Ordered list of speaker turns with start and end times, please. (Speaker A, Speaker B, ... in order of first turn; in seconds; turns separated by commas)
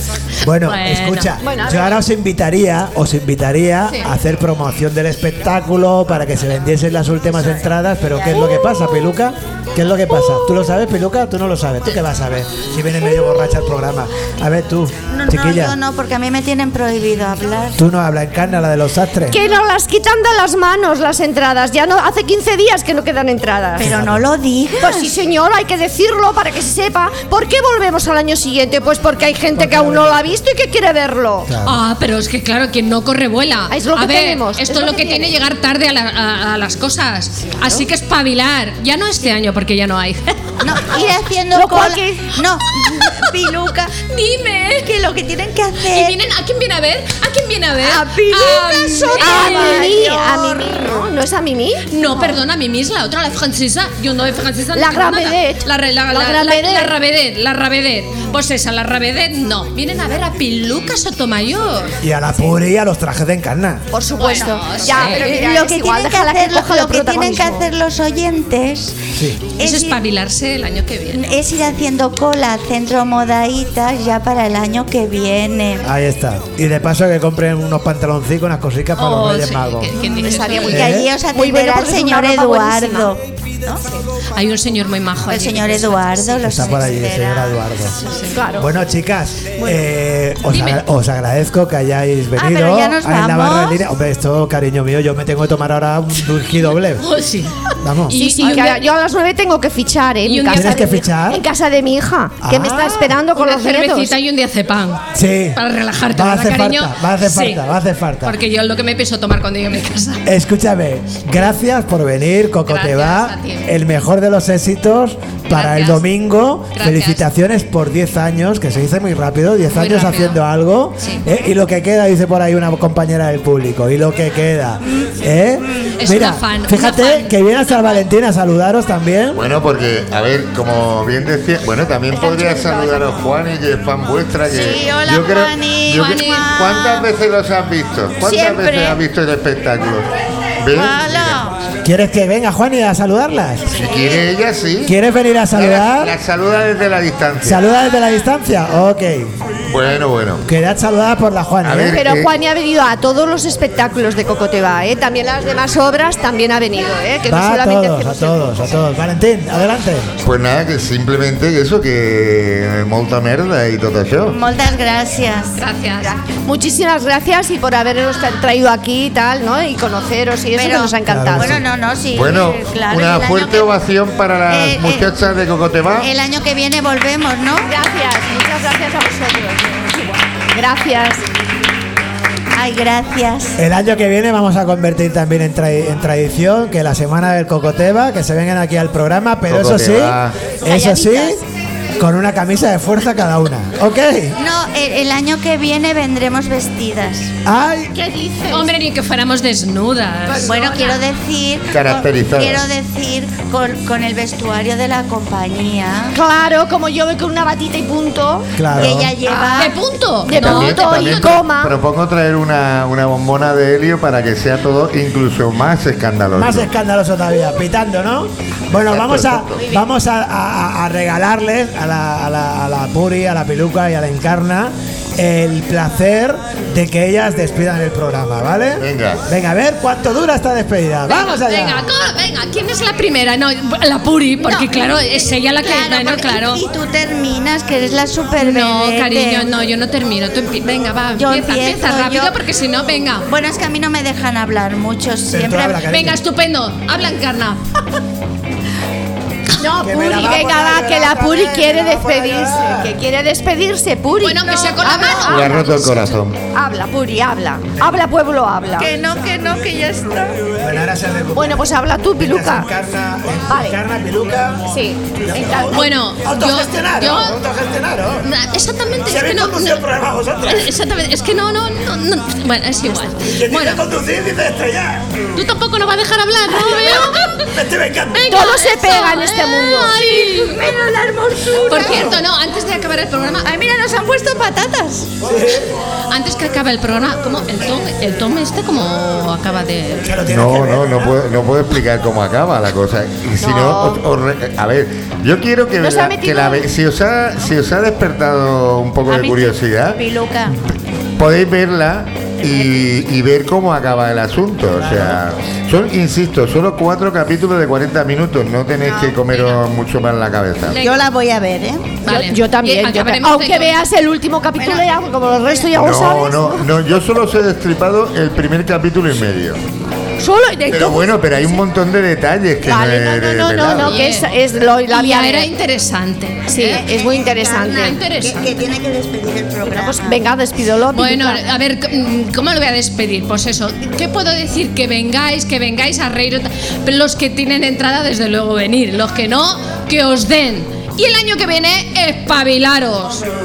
Speaker A: 0.4-15.8, Speaker B: 0.6-1.3, Speaker C: 1.4-2.0, Speaker D: 8.2-8.6, Speaker D: 15.1-17.8, Speaker A: 17.8-19.4, Speaker C: 19.3-23.9, Speaker D: 23.8-25.1, Speaker A: 23.8-24.3, Speaker C: 24.8-31.5, Speaker A: 29.5-30.2, Speaker A: 31.4-31.8, Speaker B: 31.6-40.8, Speaker C: 33.7-35.3, Speaker D: 40.6-43.9, Speaker C: 40.9-42.3, Speaker B: 42.7-44.9, Speaker D: 44.8-46.2, Speaker B: 45.8-50.8, Speaker D: 47.8-49.9, Speaker C: 49.2-51.9, Speaker B: 51.9-62.0, Speaker C: 54.7-57.0, Speaker A: 62.0-63.8, Speaker C: 63.9-67.6, Speaker B: 64.2-65.6, Speaker D: 64.3-69.0, Speaker A: 69.1-69.4, Speaker D: 69.6-70.0, Speaker B: 69.6-71.3, Speaker D: 71.1-75.9, Speaker A: 75.8-79.9, Speaker B: 79.0-80.9, Speaker D: 80.0-83.8, Speaker C: 80.1-83.1, Speaker A: 80.7-81.1, Speaker B: 84.3-86.7, Speaker D: 85.3-88.2, Speaker A: 86.4-88.0, Speaker B: 88.0-88.3, Speaker C: 88.3-88.7, Speaker A: 88.6-97.0, Speaker B: 90.5-90.8, Speaker D: 92.3-93.8, Speaker B: 97.0-98.9, Speaker A: 97.8-98.2, Speaker C: 98.1-104.1, Speaker B: 100.2-101.0, Speaker A: 100.5-101.4, Speaker A: 102.4-103.2, Speaker B: 103.3-107.6, Speaker A: 105.1-108.4, Speaker B: 108.2-110.2, Speaker A: 110.2-129.4, Speaker B: 112.7-113.7, Speaker B: 115.5-116.0, Speaker B: 116.7-117.3, Speaker B: 119.7-120.4, Speaker B: 121.0-121.2, Speaker D: 124.9-125.9, Speaker B: 126.0-128.0, Speaker E: 129.3-140.1, Speaker D: 134.4-137.1, Speaker B: 135.9-136.5, Speaker D: 138.2-139.0, Speaker E: 140.6-141.4, Speaker D: 140.7-141.6, Speaker A: 141.8-143.8, Speaker E: 143.7-145.0, Speaker D: 143.8-144.2, Speaker A: 144.8-146.2, Speaker E: 145.5-147.6, Speaker A: 147.4-149.3, Speaker E: 149.7-150.4, Speaker A: 150.4-152.0, Speaker E: 151.6-152.3, Speaker C: 151.9-158.7, Speaker A: 157.2-160.1, Speaker E: 160.2-164.4, Speaker D: 164.3-166.2, Speaker B: 165.6-166.1, Speaker C: 166.4-171.5, Speaker D: 170.5-173.7, Speaker A: 171.1-171.6, Speaker E: 172.1-176.1, Speaker D: 174.5-175.2, Speaker D: 176.0-177.7, Speaker C: 177.7-180.0, Speaker C: 180.5-181.2, Speaker D: 182.5-183.6, Speaker A: 183.6-191.4, Speaker E: 189.5-190.4, Speaker C: 190.6-191.4, Speaker A: 192.0-194.4, Speaker D: 194.4-197.3, Speaker A: 197.4-197.9, Speaker C: 197.9-198.7, Speaker B: 198.5-200.9, Speaker C: 200.3-200.9, Speaker D: 200.4-206.2, Speaker E: 201.7-202.7, Speaker C: 206.1-208.5, Speaker A: 208.5-209.2, Speaker D: 208.7-209.8, Speaker C: 209.2-211.7, Speaker B: 209.6-211.3, Speaker E: 210.3-216.7, Speaker A: 216.3-231.9, Speaker E: 218.7-219.7, Speaker E: 228.8-229.2, Speaker B: 231.1-236.6, Speaker D: 234.4-239.5, Speaker B: 238.4-243.3, Speaker D: 241.2-242.3, Speaker D: 243.2-245.8, Speaker A: 245.3-246.2, Speaker B: 245.9-247.6, Speaker C: 249.6-255.7, Speaker A: 249.7-252.9, Speaker B: 254.2-256.0, Speaker E: 255.2-256.4, Speaker C: 256.5-258.9, Speaker D: 258.8-260.4, Speaker A: 260.6-264.6, Speaker C: 261.3-262.7, Speaker C: 263.5-263.8, Speaker C: 264.7-265.7, Speaker A: 265.2-268.3, Speaker B: 265.7-267.4, Speaker B: 268.2-269.8, Speaker A: 269.0-270.7, Speaker B: 270.4-273.8, Speaker A: 273.3-275.1, Speaker B: 275.3-277.5, Speaker A: 277.1-278.4, Speaker B: 278.1-280.8, Speaker C: 278.3-280.0, Speaker D: 280.1-282.2, Speaker B: 281.6-283.5, Speaker D: 283.4-285.1, Speaker A: 285.2-285.8, Speaker B: 286.1-290.2, Speaker A: 290.0-291.2, Speaker E: 290.3-300.0, Speaker C: 293.4-294.0, Speaker C: 295.8-296.7, Speaker D: 299.1-300.6, Speaker E: 301.2-310.8, Speaker A: 304.8-305.2, Speaker D: 308.8-309.1, Speaker D: 310.7-311.9, Speaker B: 310.7-311.0, Speaker B: 312.0-313.8, Speaker C: 312.1-316.7, Speaker D: 314.6-314.9, Speaker D: 315.5-316.1, Speaker E: 315.7-319.6, Speaker C: 320.2-321.2, Speaker E: 320.7-323.9, Speaker C: 322.6-325.5, Speaker B: 323.8-324.3, Speaker B: 324.9-328.4, Speaker C: 326.5-328.0, Speaker D: 326.8-330.2, Speaker C: 329.6-331.4, Speaker B: 330.9-343.2